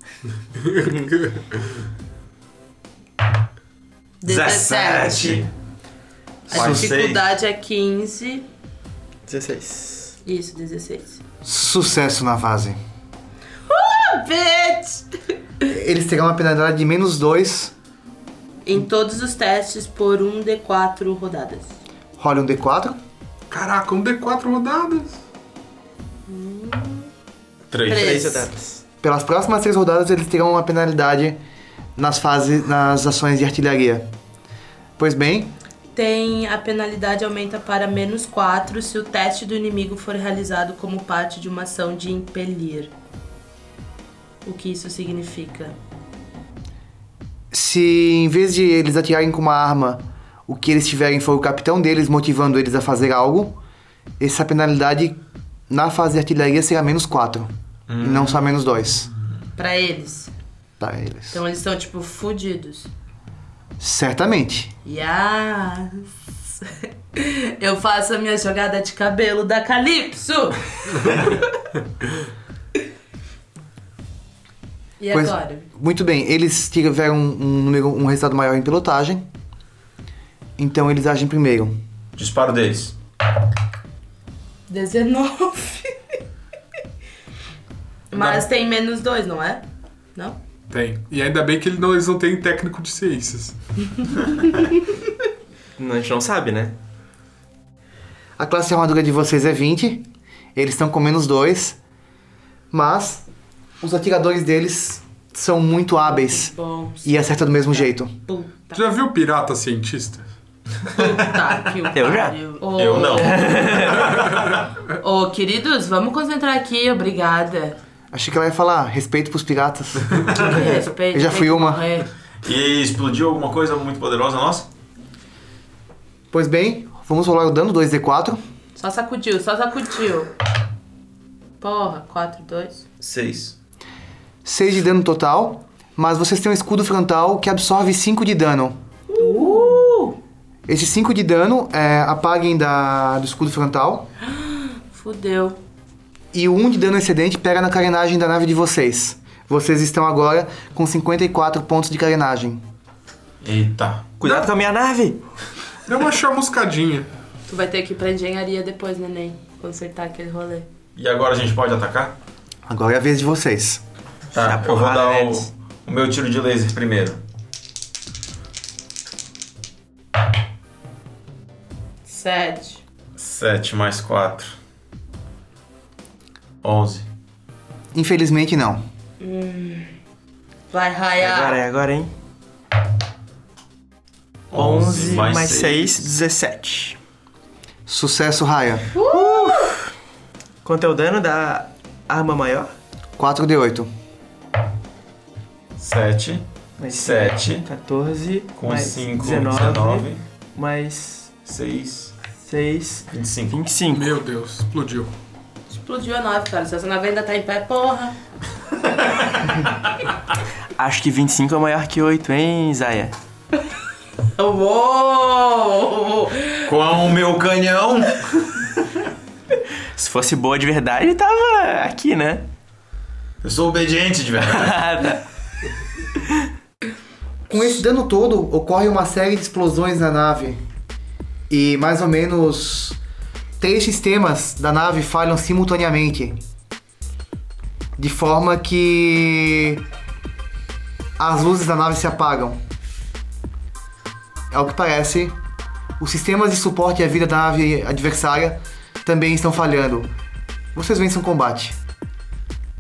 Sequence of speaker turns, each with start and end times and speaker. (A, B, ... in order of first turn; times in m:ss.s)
0:00.6-0:01.6 A
0:04.2-0:05.5 B
0:04.3-0:05.5 C
0:06.5-0:08.5 B
0:06.5-0:07.3 C
0:06.5-0:06.9 D
0:09.3-0:10.2 E
0:10.3-0:11.2 B
0:11.4-0:12.8 D
0:13.7-0:15.1 B
0:15.6-0:17.7 D
0:18.7-0:21.8 B
0:22.2-0:23.0 D
0:23.5-0:25.2 A
0:26.3-0:27.1 B
0:27.7-0:28.2 C
0:27.8-0:28.5 B
0:27.9-0:28.8 E
0:29.0-0:31.4 D
0:32.0-0:34.1 D
0:35.0-0:35.5 D
0:36.0-0:42.9 B
0:44.4-0:45.8 B
0:47.5-0:53.6 D
0:54.2-0:59.1 D
0:57.9-0:58.6 C
0:59.6-1:00.3 B
1:00.8-1:01.4 D
1:01.3-1:02.9 B
1:03.8-1:04.7 D
1:04.8-1:06.0 B
1:06.6-1:11.4 B
1:15.0-1:15.7 B
1:15.1-1:19.3 D
1:20.6-1:21.8 D
1:22.2-1:23.0 C
1:24.7-1:26.0 B
1:28.1-1:30.4 B
1:28.1-1:28.4 A
1:30.7-1:33.6 A
1:35.8-1:36.7 E
1:38.4-1:41.8 D
1:42.7-1:43.3 D
1:43.8-1:48.2 D
1:46.1-1:48.8 B
1:48.7-1:50.3 A
1:50.9-1:54.1 B
1:51.9-1:52.4 E
1:52.8-1:54.7 C
1:53.2-1:54.2 E
1:54.9-1:57.8 B
1:58.1-2:00.3 D
2:00.4-2:02.1 B
2:01.1-2:01.8 D
2:02.4-2:04.7 C
2:06.3-2:08.4 D
2:08.8-2:10.3 B
2:11.6-2:12.8 B
2:13.0-2:13.6 C
2:14.4-2:18.8 D
2:19.2-2:20.2 B
2:20.7-2:24.1 D
2:24.2-2:25.6 B
2:26.3-2:32.6 D
2:33.4-2:34.1 C
2:34.2-2:35.2 E
2:35.9-2:37.1 A
2:37.5-2:40.7 B
2:41.0-2:42.2 C
2:42.7-2:43.8 D
2:44.3-2:45.5 E
2:44.4-2:47.2 C
2:52.1-2:52.8 B
2:53.2-2:54.5 C
2:56.6-2:57.1 C
2:57.9-2:58.8 D
2:59.2-2:59.9 B
3:00.7-3:01.6 B
3:01.2-3:02.1 E
3:04.5-3:06.1 C
3:04.5-3:07.0 E
3:07.9-3:08.9 D
3:09.0-3:09.6 B
3:09.0-3:09.9 E
3:10.6-3:12.7 E
3:13.2-3:13.9 D
3:15.8-3:17.7 C
3:16.8-3:21.3 E
3:18.6-3:20.2 C
3:21.4-3:22.1 C
3:22.4-3:24.2 E
3:23.1-3:23.6 C
3:23.9-3:25.1 A
3:25.7-3:28.2 B
3:29.4-3:29.7 C
3:30.8-3:33.1 E
3:34.4-3:36.7 B
3:36.7-3:38.3 C
3:40.0-3:42.5 E
3:43.4-3:44.8 C
3:44.4-3:45.2 E
3:47.5-3:50.6 D
3:51.5-3:53.0 D
3:53.6-3:56.4 D
3:58.0-3:59.8 D
4:01.2-4:02.6 D
4:04.5-4:05.4 D
4:06.0-4:10.1 D
4:10.8-4:11.8 D